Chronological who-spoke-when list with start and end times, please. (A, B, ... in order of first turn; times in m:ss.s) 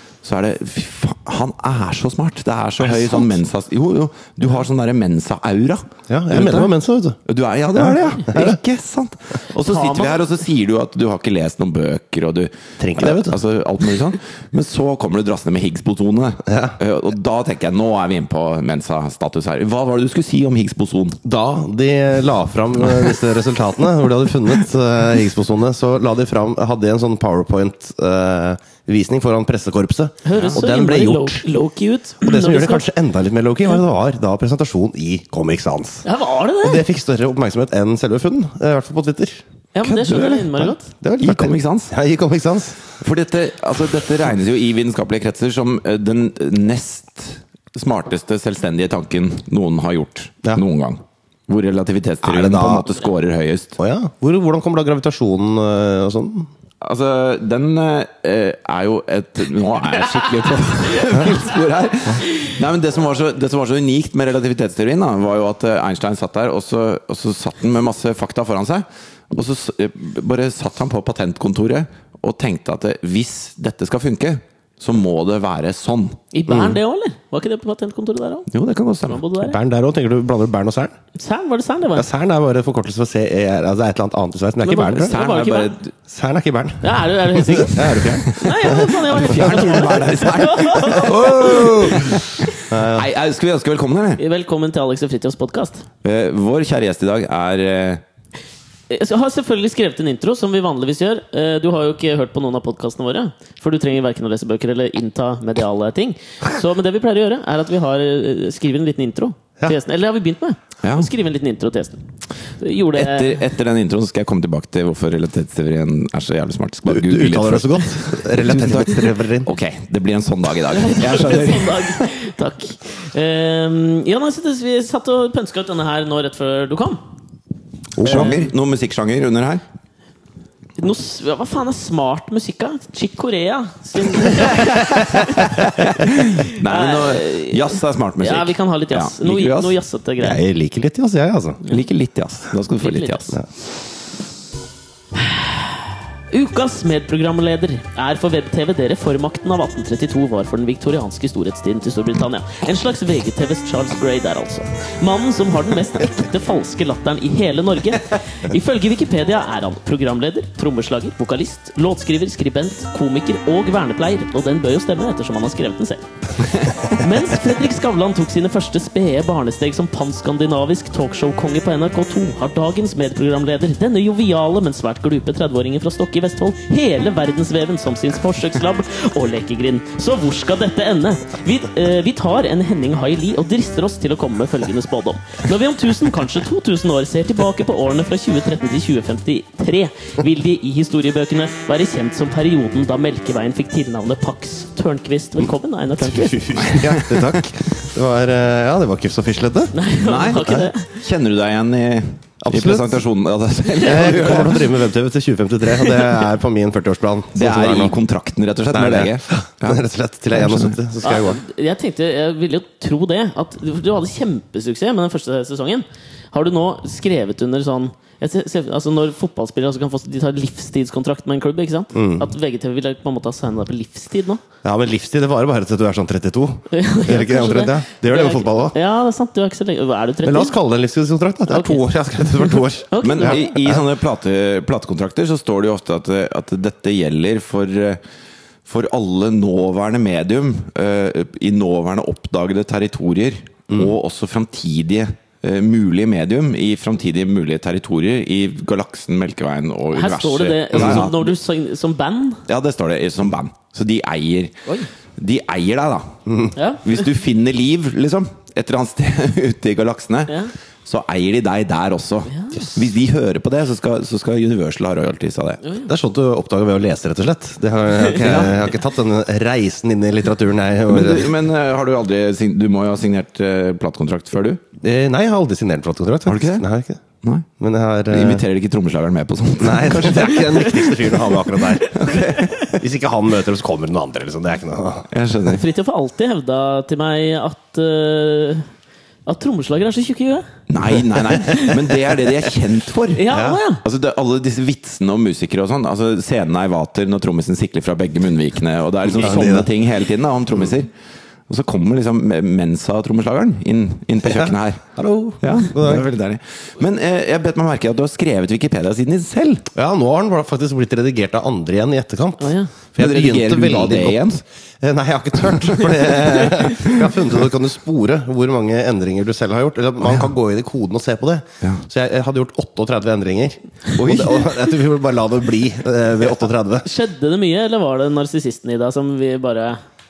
0:00.2-0:06.7 A
0:02.8-0:03.3 B
0:06.1-0:07.2 B
0:07.3-0:21.2 A
0:07.8-0:08.6 B
0:09.7-0:10.2 C
0:12.8-0:13.4 B
0:16.5-0:16.8 B
0:21.2-0:31.4 B
0:30.2-0:32.9 C
0:30.3-0:30.6 A
0:32.2-0:36.0 B
0:36.0-0:36.8 C
0:36.6-0:39.4 B
0:39.7-0:40.9 C
0:39.8-0:41.9 A
0:40.9-0:42.9 B
0:43.0-0:53.8 A
0:52.2-0:53.0 B
0:53.8-0:56.5 B
0:56.8-1:16.2 A
1:16.3-1:18.5 C
1:16.5-1:16.8 B
1:18.5-1:19.2 A
1:19.0-1:19.6 C
1:19.4-1:21.0 B
1:21.2-1:22.1 C
1:22.0-1:25.2 B
1:24.6-1:25.7 C
1:24.9-1:25.9 A
1:26.1-1:28.9 B
1:26.8-1:31.9 C
1:27.8-1:34.2 A
1:30.9-1:33.1 B
1:34.2-1:35.8 C
1:36.0-1:38.0 A
1:38.9-1:52.0 C
1:50.8-1:51.1 A
1:52.6-1:53.4 C
1:52.9-2:02.1 A
1:56.9-1:59.5 B
2:00.7-2:07.0 C
2:08.0-2:08.4 B
2:08.0-2:09.6 A
2:08.1-2:08.5 C
2:10.8-2:20.4 C
2:14.4-2:19.8 A
2:20.2-2:21.6 B
2:21.7-2:23.4 A
2:22.8-2:23.4 C
2:25.2-3:16.5 C
3:16.0-3:19.7 B
3:16.6-3:17.4 A
3:19.7-3:21.0 C
3:20.0-3:24.7 A
3:20.4-3:20.7 B
3:22.4-3:23.0 B
3:23.8-3:28.0 B
3:25.8-3:26.2 C
3:27.4-3:30.8 A
3:28.7-3:31.4 B
3:31.0-3:44.4 C
3:41.9-3:42.3 B
3:44.6-3:48.8 B
3:46.7-3:50.6 C
3:50.2-3:53.8 B
3:51.5-3:51.8 C
3:52.4-3:53.5 C
3:53.0-3:58.0 A
3:58.7-4:11.3 A
4:09.9-4:12.4 C
4:12.5-4:14.6 A
4:15.2-4:16.1 A
4:16.3-4:16.5 B
4:16.6-4:16.8 C
4:16.8-4:25.6 A
4:22.3-4:22.7 C
4:25.6-4:25.9 C
4:25.9-4:31.3 B
4:28.2-4:28.7 A
4:30.9-4:34.6 A
4:34.8-4:37.0 B
4:36.3-4:36.7 A
4:37.6-4:38.4 B
4:38.1-4:40.9 A
4:39.6-4:42.0 B
4:41.7-4:42.6 C
4:41.9-4:42.8 A
4:42.6-4:45.1 B
4:45.1-4:45.6 A
4:45.5-4:48.7 C
4:49.3-4:50.5 C
4:50.7-4:53.3 A
4:51.2-4:51.8 C
4:53.1-4:53.8 C
4:53.3-4:53.6 B
4:53.8-5:00.9 A
4:59.1-4:59.7 B
5:01.5-5:04.9 A
5:04.2-5:06.1 B
5:05.4-5:09.7 A
5:09.8-5:26.9 B
5:12.4-5:12.7 C
5:13.0-5:14.4 A
5:24.0-5:24.7 A
5:26.8-5:29.8 C